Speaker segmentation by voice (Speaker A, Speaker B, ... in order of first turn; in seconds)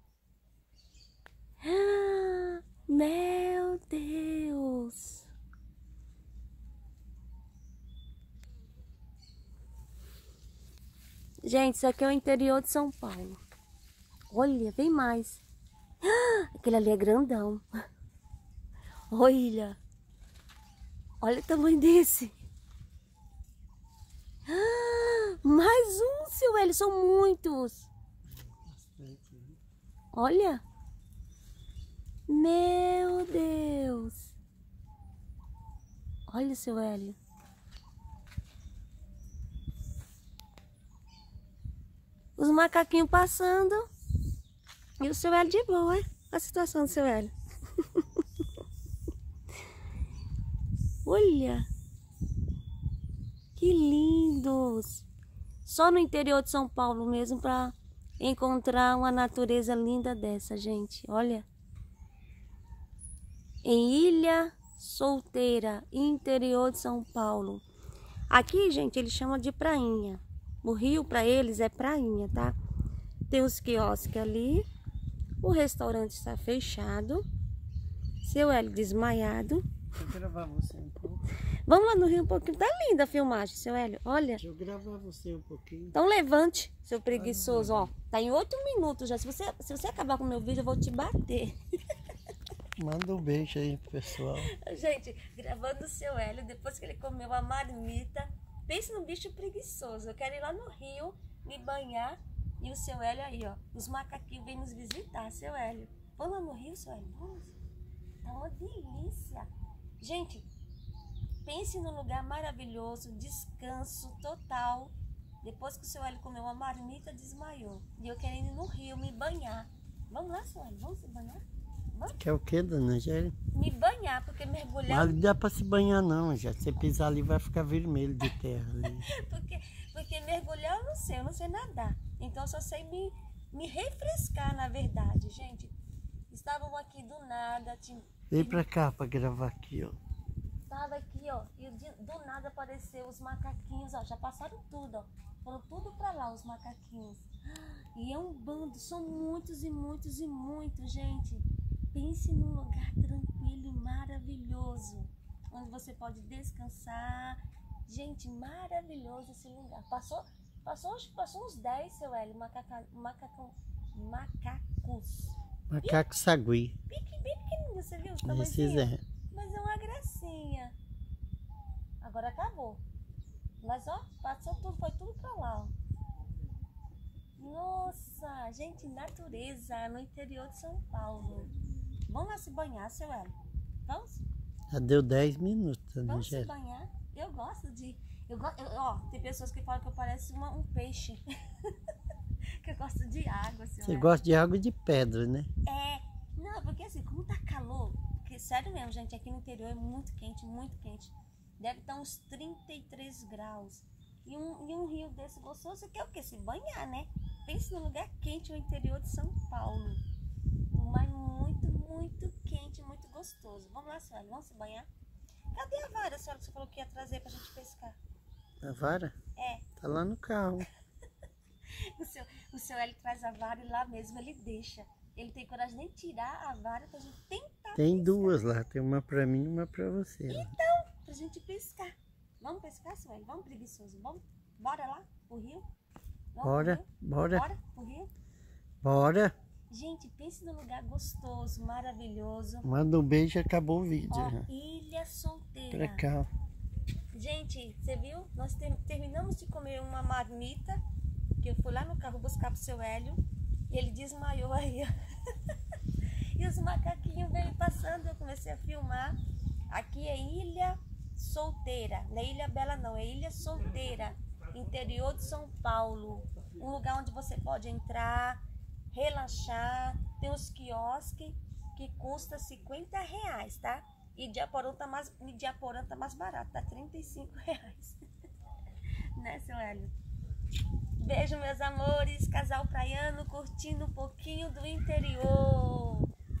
Speaker A: 1.6-5.3, 11.4-13.4, 14.3-15.4, 16.0-17.6, 19.1-19.8, 21.2-22.3, 24.5-27.9, 30.1-30.6, 32.3-34.3, 36.3-37.2, 42.4-43.8, 45.0-48.0, 51.0-51.7, 53.5-55.0, 55.6-61.5, 63.6-67.6, 68.3-72.5, 73.3-74.6, 75.4-77.2, 78.2-79.6, 81.7-84.4, 85.9-91.5, 94.2-107.5, 108.2-109.5, 110.0-110.5, 111.4-122.2, 123.5-125.2, 128.9-135.7, 136.3-138.6, 140.7-166.0, 166.9-170.7, 172.0-172.8, 173.6-175.7, 177.4-181.5, 182.1-183.3, 183.8-184.2, 186.0-191.7, 192.6-194.1, 195.7-210.0, 210.7-214.9, 215.5-218.0, 219.3-219.7, 221.9-228.4, 230.3-235.7, 236.3-238.1, 239.7-242.7, 244.1-246.0, 247.1-250.8, 251.4-255.5, 256.3-259.2, 259.7-268.4, 268.9-278.0, 279.1-279.9, 281.0-286.1
Speaker B: 28.3-29.6, 80.0-81.3, 84.4-86.0, 87.1-87.9, 92.8-94.5, 122.2-123.3, 124.9-129.1, 138.3-140.0, 165.7-166.8, 168.2-169.0, 184.7-186.5, 193.8-195.5, 218.6-219.1, 219.8-220.7, 227.8-230.5, 236.4-237.5, 238.8-239.3, 242.6-244.5, 245.7-246.3